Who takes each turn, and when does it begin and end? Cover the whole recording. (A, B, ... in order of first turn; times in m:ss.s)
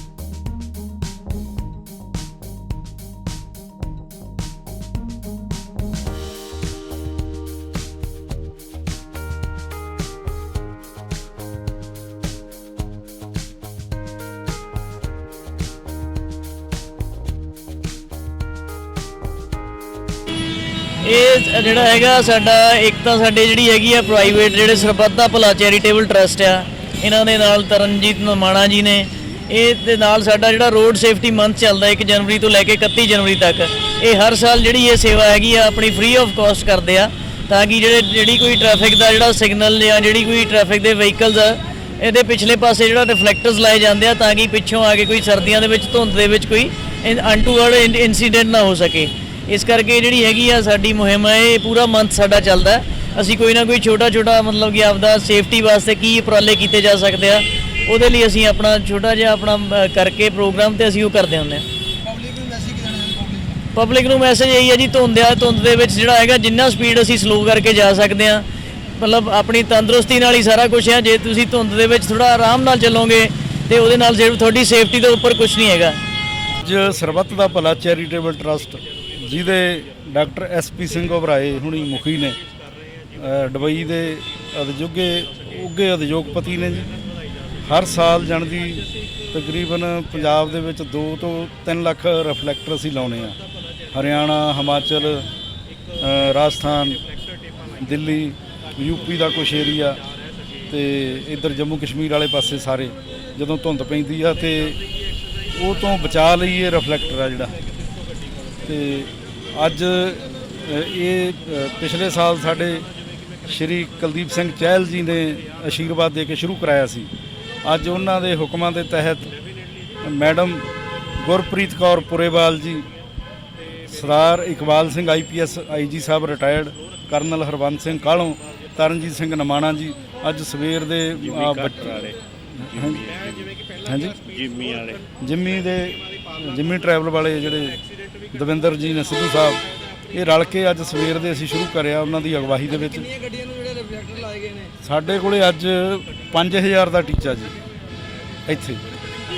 0:21.0-1:01.6 A
1:02.0-1:03.6 B
1:03.8-1:16.0 A
1:16.6-1:22.4 C
1:23.1-1:26.9 C
1:27.6-1:33.4 C
1:33.9-1:35.3 C
1:36.0-1:37.0 C
1:37.8-1:40.0 C
1:40.7-1:44.8 C
1:45.5-1:47.5 C
1:48.7-1:52.9 C
1:53.4-1:57.1 C
1:57.6-1:59.3 C
2:00.0-2:00.7 C
2:01.2-2:02.9 C
2:03.9-2:13.1 C
2:11.2-2:12.2 D
2:12.7-2:13.6 D
2:13.8-2:14.2 C
2:14.2-2:15.0 D
2:15.2-2:17.8 C
2:18.3-2:23.1 C
2:22.8-2:24.7 B
2:24.8-2:27.6 C
2:28.5-2:28.8 C